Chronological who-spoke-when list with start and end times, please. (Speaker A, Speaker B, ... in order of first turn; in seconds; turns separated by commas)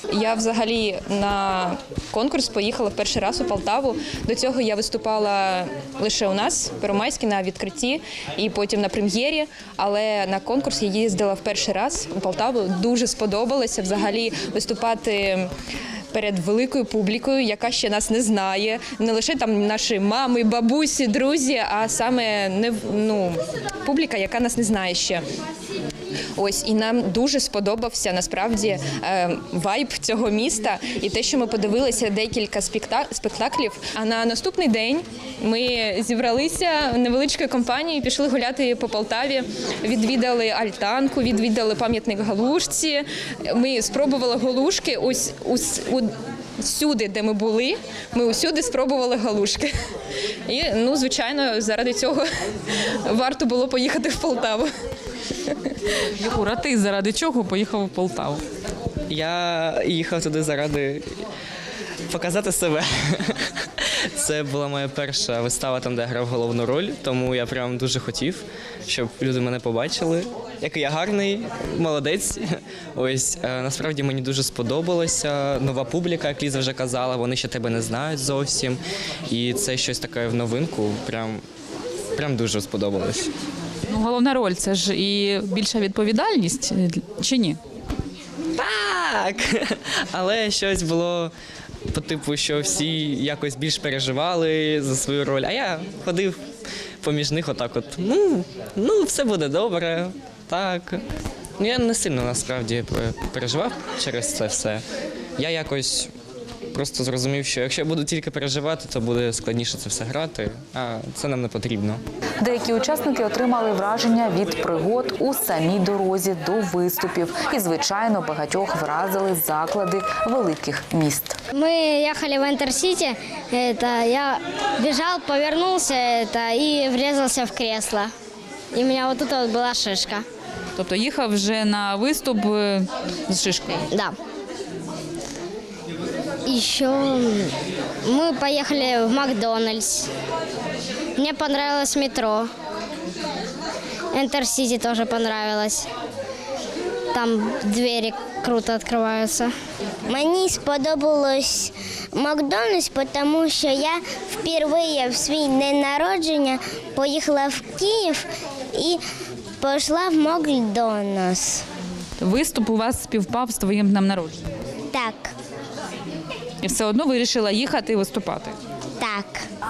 Speaker A: 0.1-15.5, Speaker A: 16.1-25.2, Speaker A: 26.4-49.7, Speaker A: 50.5-52.2, Speaker A: 53.1-54.7, Speaker A: 55.4-55.8, Speaker B: 56.2-58.4, Speaker C: 59.1-61.2, Speaker C: 62.1-81.4, Speaker C: 82.2-83.3, Speaker B: 83.9-87.6, Speaker C: 88.5-91.3, Speaker C: 91.9-96.4, Speaker C: 97.0-101.0, Speaker C: 101.6-104.8, Speaker C: 105.4-106.1, Speaker C: 106.7-112.0, Speaker D: 112.4-121.4, Speaker E: 121.5-128.1, Speaker E: 128.7-130.3, Speaker B: 130.8-133.9, Speaker E: 133.9-134.2, Speaker E: 136.5-137.5, Speaker E: 138.1-140.1, Speaker E: 141.2-142.5, Speaker E: 144.1-145.9, Speaker E: 147.1-149.5, Speaker F: 150.1-159.0, Speaker F: 159.6-161.7, Speaker B: 162.2-164.4, Speaker F: 164.9-165.3, Speaker B: 166.6-168.6, Speaker F: 169.0-169.5